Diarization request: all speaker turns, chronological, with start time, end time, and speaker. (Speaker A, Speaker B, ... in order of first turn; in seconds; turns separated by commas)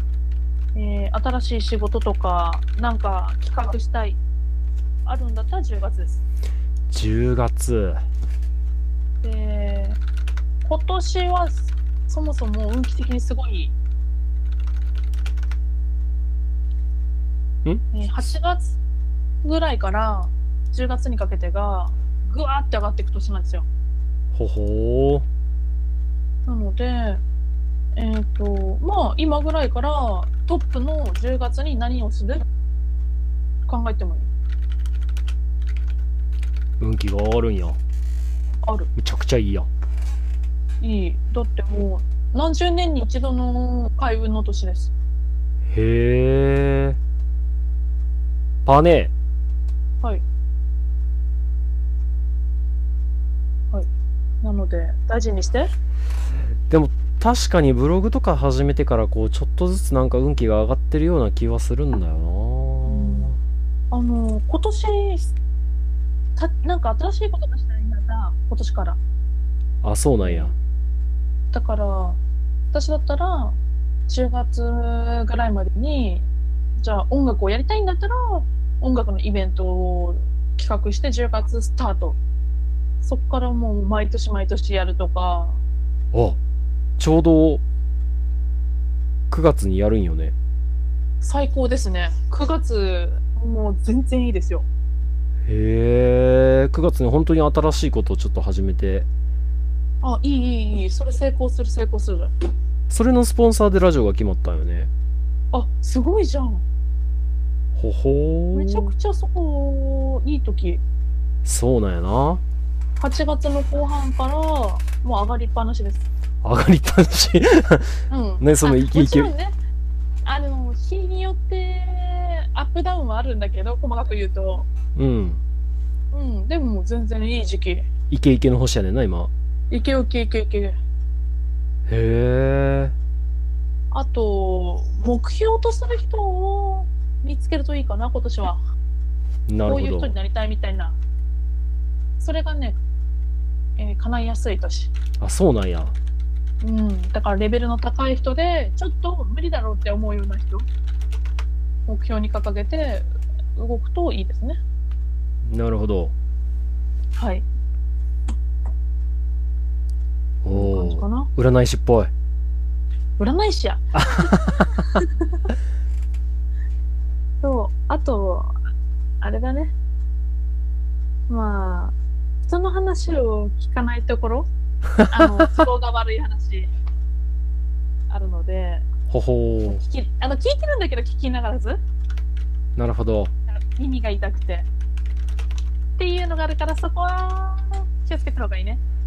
Speaker A: 0.8-4.2, Speaker A: 5.0-6.2, Speaker B: 6.9-8.0, Speaker A: 9.2-10.0, Speaker A: 10.6-13.8, Speaker A: 17.9-18.8, Speaker A: 19.4-23.6, Speaker B: 24.3-25.2, Speaker A: 26.5-27.2, Speaker A: 28.0-32.4, Speaker A: 33.6-34.3, Speaker B: 36.8-37.8, Speaker A: 38.6-38.9, Speaker B: 39.0-39.7, Speaker A: 40.8-44.9, Speaker B: 45.7-47.0, Speaker B: 48.6-49.1, Speaker A: 54.4-55.7, Speaker B: 56.7-63.4, Speaker A: 62.9-63.3, Speaker A: 63.9-65.3, Speaker A: 66.4-69.0, Speaker B: 69.8-70.5, Speaker A: 70.2-70.5, Speaker A: 71.5-72.2, Speaker A: 72.7-73.6, Speaker A: 74.1-76.3, Speaker A: 76.8-82.2, Speaker A: 83.0-85.6, Speaker B: 86.1-86.4, Speaker B: 87.0-87.6, Speaker B: 89.3-90.3, Speaker A: 91.2-94.7, Speaker B: 95.5-99.1, Speaker A: 100.0-102.3, Speaker B: 102.9-104.9, Speaker A: 105.5-106.6, Speaker B: 107.8-108.9, Speaker A: 108.5-110.8, Speaker B: 111.5-112.4, Speaker A: 113.0-116.1, Speaker B: 116.4-119.3, Speaker A: 118.1-119.5, Speaker A: 120.2-124.7, Speaker B: 125.0-125.4, Speaker A: 126.1-127.9, Speaker B: 128.1-129.3, Speaker A: 129.7-130.8, Speaker B: 131.9-132.9, Speaker A: 133.9-138.6, Speaker B: 139.5-140.1, Speaker A: 139.7-141.0, Speaker A: 142.2-142.8, Speaker A: 143.8-144.9, Speaker B: 145.2-145.9, Speaker A: 146.6-150.7, Speaker A: 151.9-154.6, Speaker B: 155.4-156.1, Speaker A: 157.2-157.4, Speaker B: 160.4-162.1, Speaker A: 160.5-161.3, Speaker A: 163.2-165.0, Speaker B: 164.0-164.8, Speaker A: 167.4-168.6, Speaker A: 169.2-169.7, Speaker A: 171.3-171.9, Speaker A: 172.5-174.5, Speaker B: 175.0-175.6, Speaker A: 175.1-176.7, Speaker A: 178.1-178.9, Speaker B: 179.1-179.8, Speaker A: 179.7-181.8, Speaker B: 182.8-183.3, Speaker A: 183.5-184.7, Speaker A: 186.0-188.8